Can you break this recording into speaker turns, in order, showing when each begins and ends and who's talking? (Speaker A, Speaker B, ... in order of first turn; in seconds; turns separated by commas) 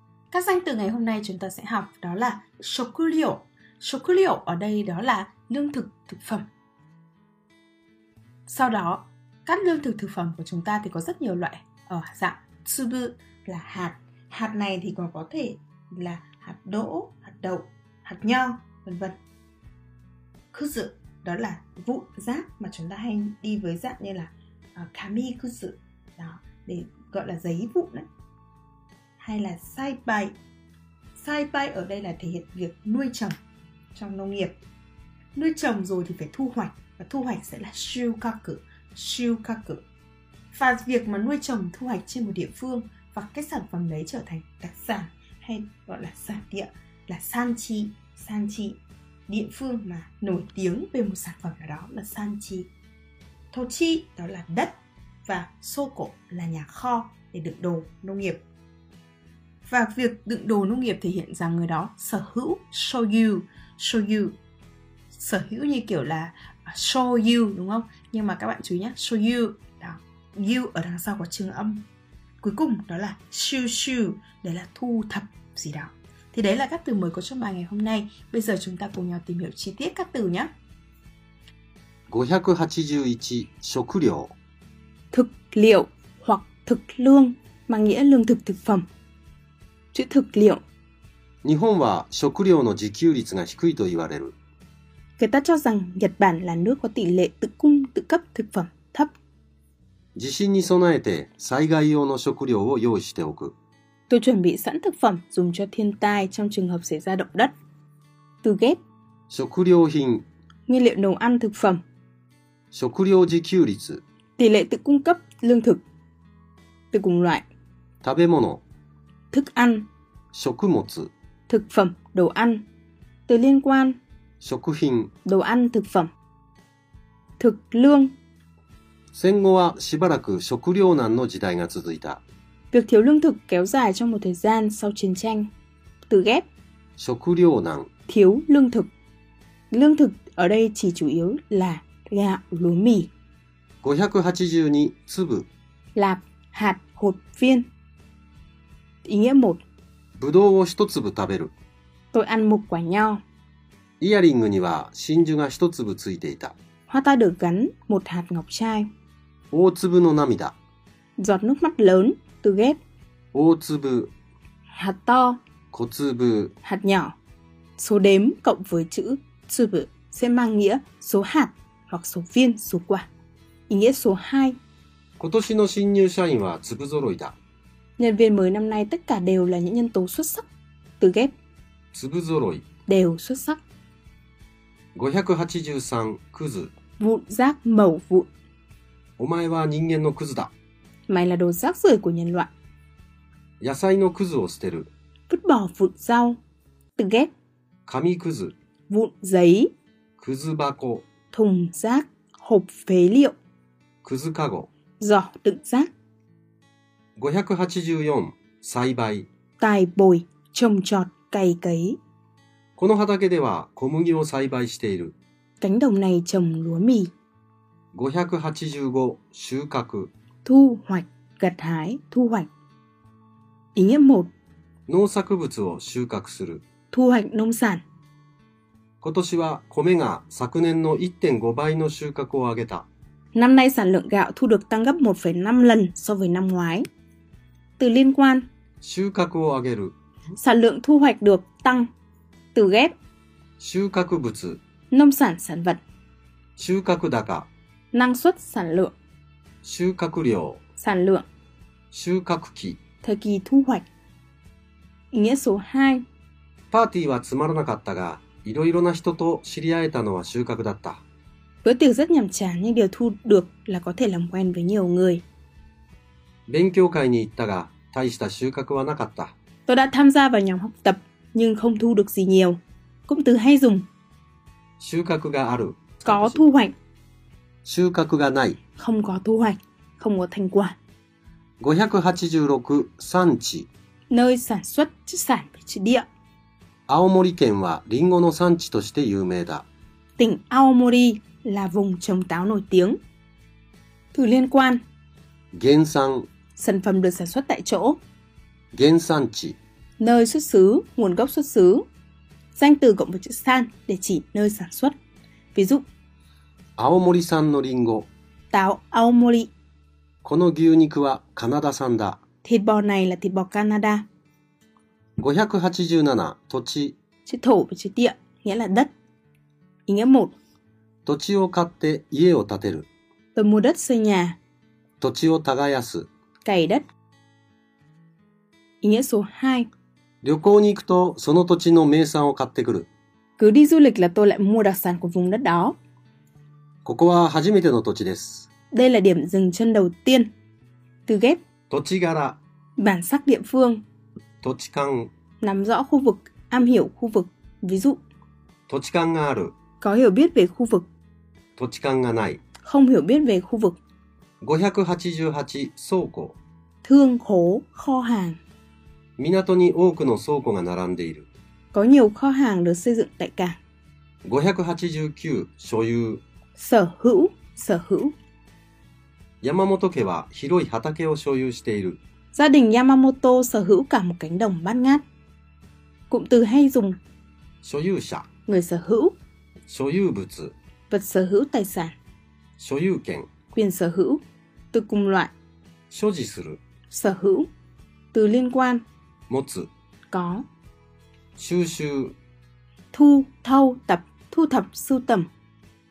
Speaker A: 0.3-6.5, Speaker A: 8.5-19.2, Speaker A: 20.5-28.1, Speaker A: 29.2-30.3, Speaker A: 31.2-33.3, Speaker A: 33.9-34.6, Speaker A: 35.3-39.8, Speaker A: 40.5-52.7, Speaker A: 53.5-58.4, Speaker A: 59.6-64.4, Speaker A: 65.1-71.8, Speaker A: 72.4-80.5, Speaker B: 82.1-84.3, Speaker A: 85.1-88.8, Speaker A: 89.9-90.6, Speaker B: 91.4-94.3, Speaker A: 95.2-99.1, Speaker B: 100.2-103.5, Speaker A: 104.1-107.5, Speaker A: 108.4-108.8, Speaker B: 109.3-110.2, Speaker A: 110.7-111.8, Speaker B: 112.7-114.0, Speaker A: 114.4-115.8, Speaker A: 116.9-117.5, Speaker B: 118.0-118.6, Speaker A: 119.3-119.9, Speaker B: 120.3-121.1, Speaker A: 121.5-122.6, Speaker A: 123.3-124.0, Speaker B: 124.4-125.1, Speaker A: 125.2-126.1, Speaker A: 127.4-128.1, Speaker B: 129.1-132.2, Speaker A: 132.7-135.5, Speaker A: 136.1-136.4, Speaker B: 137.0-137.9, Speaker A: 138.1-138.9, Speaker A: 139.7-143.1, Speaker B: 143.8-145.5, Speaker A: 145.9-147.7, Speaker A: 149.0-149.6, Speaker B: 150.2-151.5, Speaker A: 152.1-153.2, Speaker B: 154.0-156.5, Speaker A: 156.9-158.9, Speaker B: 159.5-160.6, Speaker A: 161.2-162.8, Speaker B: 163.3-164.1, Speaker A: 164.7-165.4, Speaker B: 165.7-166.5, Speaker A: 166.6-167.2, Speaker A: 167.8-173.1, Speaker A: 173.7-174.6, Speaker B: 175.2-177.3, Speaker A: 178.0-180.4, Speaker A: 181.0-181.3, Speaker B: 181.9-182.6, Speaker A: 182.9-183.6, Speaker B: 184.9-186.7, Speaker A: 187.0-188.3, Speaker B: 189.2-190.5, Speaker A: 191.1-192.5, Speaker B: 193.6-194.9, Speaker A: 195.3-196.4, Speaker A: 197.0-197.3, Speaker B: 197.9-198.5, Speaker A: 198.9-199.7, Speaker B: 200.2-201.0, Speaker A: 201.3-203.3, Speaker B: 204.0-204.7, Speaker A: 205.0-205.9, Speaker B: 207.2-209.3, Speaker A: 209.6-212.0, Speaker B: 212.8-215.2, Speaker A: 215.6-217.1, Speaker B: 217.9-220.1, Speaker A: 220.4-222.5, Speaker A: 223.7-224.3, Speaker B: 224.9-226.6, Speaker A: 226.9-227.8, Speaker B: 229.0-232.9, Speaker A: 233.3-236.8, Speaker A: 237.8-238.5, Speaker B: 238.8-239.9, Speaker A: 240.4-241.9, Speaker A: 242.5-242.9, Speaker B: 243.6-244.6, Speaker A: 244.9-245.8, Speaker B: 246.6-247.5, Speaker A: 247.9-248.9, Speaker B: 249.6-250.6, Speaker A: 250.8-251.2, Speaker B: 251.9-252.8, Speaker A: 253.0-253.8, Speaker A: 255.1-256.0, Speaker B: 256.7-261.0, Speaker A: 261.6-265.2, Speaker B: 266.5-269.3, Speaker A: 269.7-273.9, Speaker B: 274.8-276.4, Speaker A: 276.0-276.7, Speaker B: 277.6-278.6, Speaker A: 278.8-280.8, Speaker B: 281.6-283.7, Speaker A: 284.1-286.1, Speaker B: 286.9-289.6, Speaker A: 290.2-293.0, Speaker A: 294.1-294.8, Speaker B: 295.5-296.3, Speaker A: 296.5-298.0, Speaker B: 298.7-299.6, Speaker A: 300.0-301.8, Speaker A: 302.5-304.9, Speaker A: 305.5-305.8, Speaker B: 306.8-308.1, Speaker A: 308.5-309.5, Speaker B: 310.2-312.2, Speaker A: 312.4-314.1, Speaker B: 315.2-317.0, Speaker A: 317.2-318.9, Speaker A: 319.9-320.3, Speaker B: 321.1-322.9, Speaker A: 323.3-324.4, Speaker B: 325.0-326.1, Speaker A: 326.4-326.8, Speaker A: 328.8-329.7, Speaker B: 330.2-332.9, Speaker A: 333.4-335.8, Speaker B: 336.8-338.5, Speaker A: 338.7-340.3, Speaker A: 341.1-341.4, Speaker B: 341.7-342.4, Speaker A: 342.8-343.8, Speaker B: 344.4-345.1, Speaker A: 345.4-348.0, Speaker B: 348.7-349.5, Speaker A: 349.8-350.9, Speaker B: 351.6-352.4, Speaker A: 352.6-353.8, Speaker B: 354.4-356.4, Speaker A: 356.8-358.4, Speaker B: 359.2-361.3, Speaker A: 361.7-363.6, Speaker B: 364.2-366.2, Speaker A: 366.6-368.1, Speaker B: 369.4-372.0, Speaker A: 372.3-375.0, Speaker A: 376.1-377.0, Speaker B: 377.6-378.3, Speaker A: 378.4-379.1, Speaker B: 379.7-380.6, Speaker A: 380.9-381.9, Speaker B: 382.6-383.3, Speaker A: 383.5-384.2, Speaker A: 384.7-385.3, Speaker B: 385.9-386.6, Speaker A: 386.9-387.5, Speaker A: 388.1-388.8, Speaker B: 389.3-389.7, Speaker A: 390.1-390.4, Speaker B: 391.4-392.2, Speaker A: 392.9-395.3